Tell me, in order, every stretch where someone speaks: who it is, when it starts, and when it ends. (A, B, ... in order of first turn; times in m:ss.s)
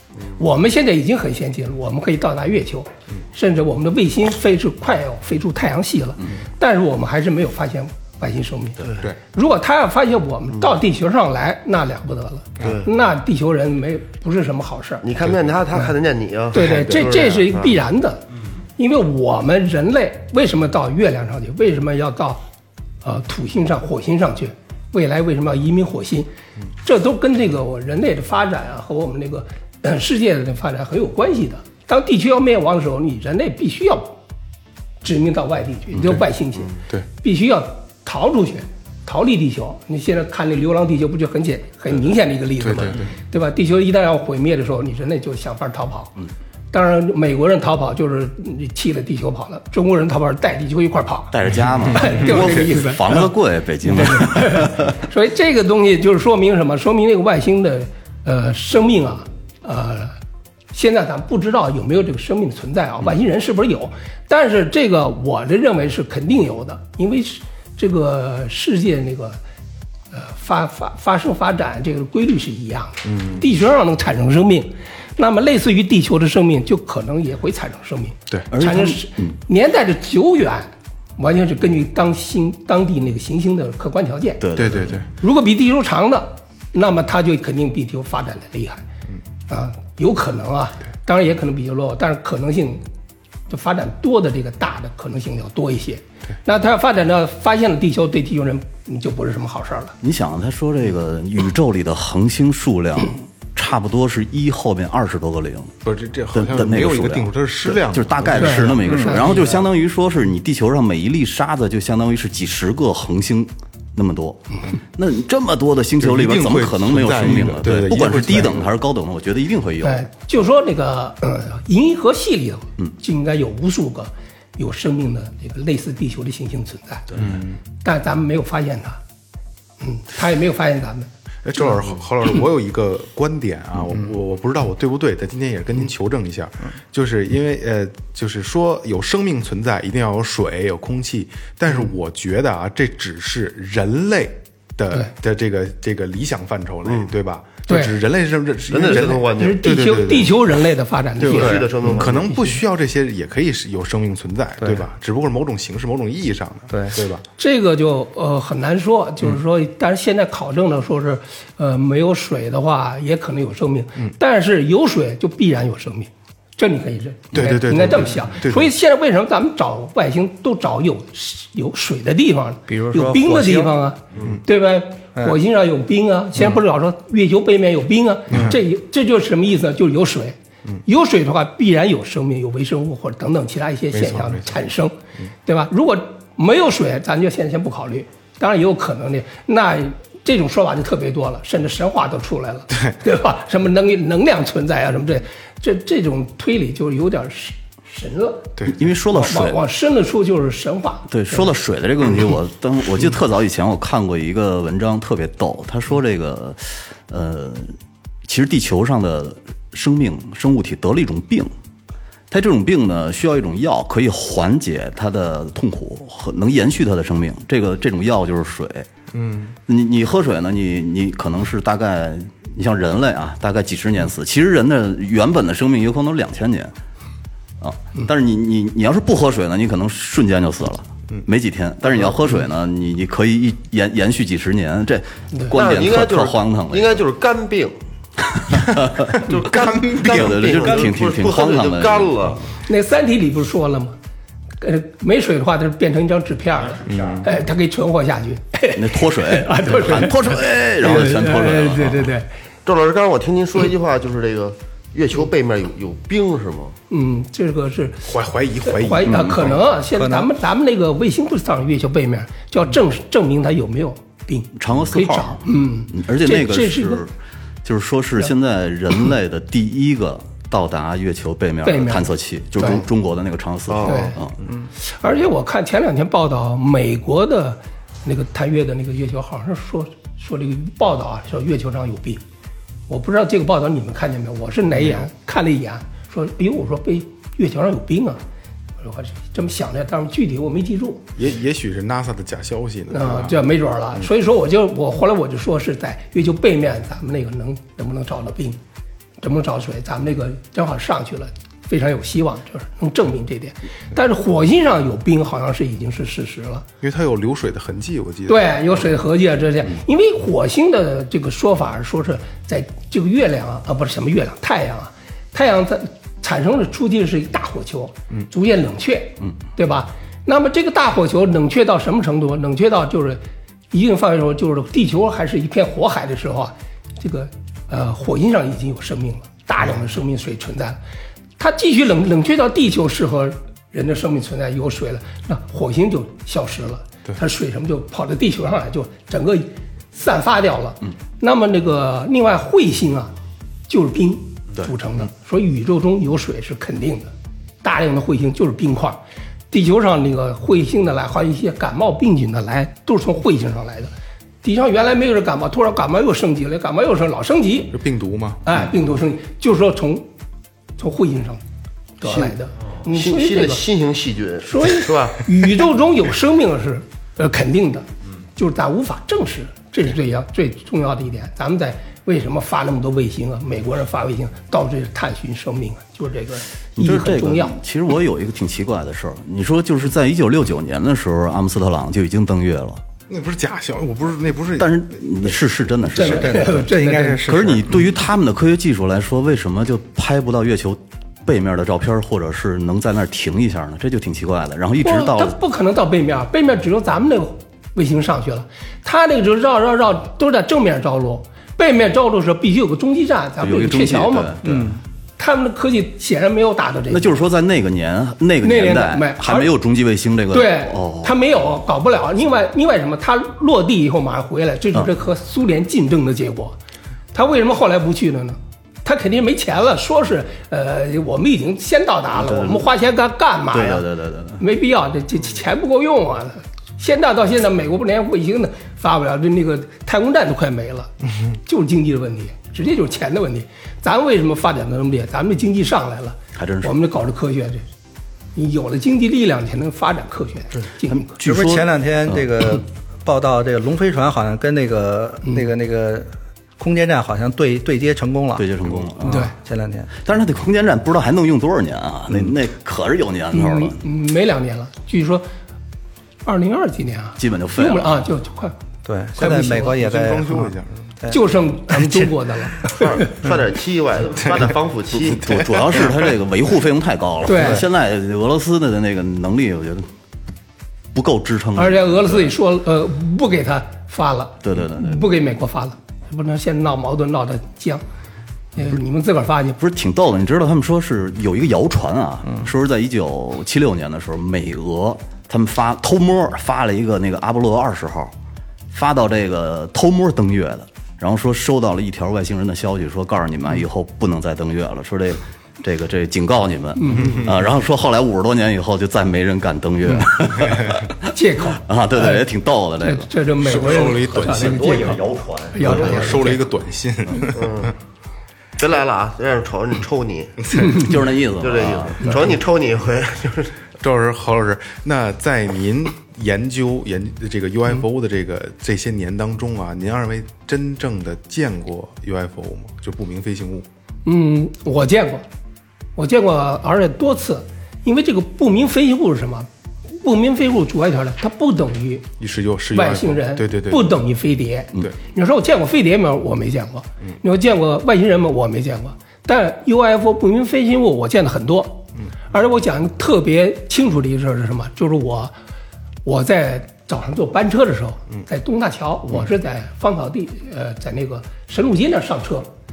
0:00.4-0:15.0 A
0:12.6-0:12.9 B
0:15.0-0:17.8 B
0:16.5-0:18.2 A
0:18.8-0:22.4 A
0:23.0-0:26.3 A
0:26.8-0:34.1 A
0:35.0-0:46.1 A
0:35.9-0:36.2 C
0:42.6-0:43.1 C
0:46.7-0:51.3 A
0:51.3-0:54.9 D
0:51.9-0:53.3 A
0:53.8-1:00.2 A
1:00.7-1:09.4 A
1:10.1-1:24.4 A
1:13.0-1:13.4 C
1:18.5-1:19.4 D
1:24.4-1:25.0 D
1:24.6-1:25.1 C
1:25.2-1:28.8 A
1:29.5-1:32.8 A
1:33.5-1:39.9 A
1:40.0-1:45.7 D
1:45.8-1:49.6 C
1:46.3-2:00.1 D
1:48.4-1:49.6 A
1:48.8-1:49.1 E
1:56.0-1:58.7 C
1:59.8-2:07.1 A
2:07.1-2:07.4 D
2:07.2-2:07.6 C
2:07.8-2:09.0 A
2:09.8-2:11.1 A
2:11.4-2:30.4 C
2:27.7-2:27.9 A
2:28.7-2:29.6 B
2:29.1-2:32.6 A
2:31.2-2:37.2 C
2:31.2-2:32.3 B
2:34.6-2:34.9 E
2:36.7-2:37.0 E
2:37.4-3:18.5 A
2:47.3-2:48.7 C
2:52.7-2:53.8 E
2:58.3-2:58.6 C
3:03.9-3:04.6 C
3:18.7-3:19.6 D
3:19.1-3:21.5 A
3:21.1-3:27.8 D
3:28.2-3:31.5 D
3:32.3-3:38.9 D
3:39.1-3:39.5 C
3:39.7-3:46.7 D
3:47.6-3:57.0 D
3:55.5-3:57.8 B
3:58.3-3:59.1 D
3:59.2-4:02.5 B
3:59.5-4:00.9 C
4:00.0-4:02.4 D
4:02.7-4:04.0 A
4:04.6-4:12.3 A
4:06.5-4:07.3 F
4:06.9-4:07.2 C
4:08.8-4:12.1 D
4:12.6-4:16.8 B
4:16.9-4:18.1 A
4:18.1-4:19.6 C
4:18.6-4:27.0 A
4:19.1-4:19.5 D
4:19.9-4:20.3 E
4:24.6-4:27.1 D
4:27.6-4:34.3 D
4:31.6-4:32.8 A
4:33.7-4:34.1 B
4:33.8-4:34.2 A
4:34.8-4:42.2 A
4:42.9-4:48.2 A
4:48.8-4:51.1 A
4:51.2-4:53.4 C
4:52.9-4:58.6 A
4:59.2-5:06.6 A
5:06.8-5:08.5 C
5:08.3-5:23.2 A
5:23.7-5:30.8 A
5:31.4-5:43.1 A
5:43.7-5:47.1 A
5:47.6-5:53.9 A
5:54.4-5:57.8 A
5:57.7-5:58.4 C
5:58.4-6:00.1 A
6:00.8-6:01.4 A
6:02.0-6:03.6 A
6:02.1-6:02.3 B
6:02.9-6:05.3 B
6:04.4-6:17.6 A
6:16.8-6:22.8 D
6:23.1-6:24.8 C
6:24.6-6:26.5 D
6:25.9-6:27.2 A
6:26.0-6:27.8 E
6:27.2-6:35.4 D
6:34.8-6:44.4 A
6:43.4-6:44.7 D
6:44.4-6:44.8 E
6:45.2-6:47.2 A
6:46.9-6:51.1 D
6:48.4-6:49.5 A
6:50.3-6:56.6 A
6:57.1-7:03.9 A
7:02.1-7:02.7 D
7:03.5-7:04.4 D
7:04.4-7:10.9 A
7:11.4-7:17.6 A
7:16.4-7:16.7 D
7:18.4-7:21.1 A
7:20.9-7:22.3 D
7:21.2-7:29.9 E
7:28.4-7:29.2 D
7:29.1-7:29.3 A
7:30.0-7:33.8 D
7:33.3-7:35.3 A
7:36.2-7:38.6 A
7:37.2-7:38.0 D
7:38.8-7:41.2 E
7:39.2-7:39.7 A
7:39.6-7:40.9 C
7:41.1-7:43.1 A
7:42.7-7:45.4 B
7:44.9-7:49.9 D
7:45.4-7:45.9 C
7:47.2-7:47.6 A
7:50.9-7:52.3 D
7:51.6-7:57.8 A
7:54.4-7:55.0 D
7:58.6-7:59.6 A
7:59.6-8:08.1 D
8:08.7-8:21.1 D
8:16.8-8:17.2 A
8:16.9-8:17.3 C
8:21.1-8:22.2 A
8:21.6-8:23.1 D
8:22.8-8:25.0 A
8:23.4-8:24.9 C
8:23.8-8:26.3 F
8:25.5-8:26.4 A
8:25.6-8:27.7 C
8:27.3-8:27.7 B
8:28.6-8:30.9 B
8:30.6-8:30.9 A
8:30.7-8:32.1 D
8:31.4-8:33.6 B
8:33.8-8:43.7 C
8:44.1-8:45.2 A
8:46.0-8:52.1 A
8:52.2-8:53.9 C
8:52.7-9:05.3 A
9:06.0-9:12.5 A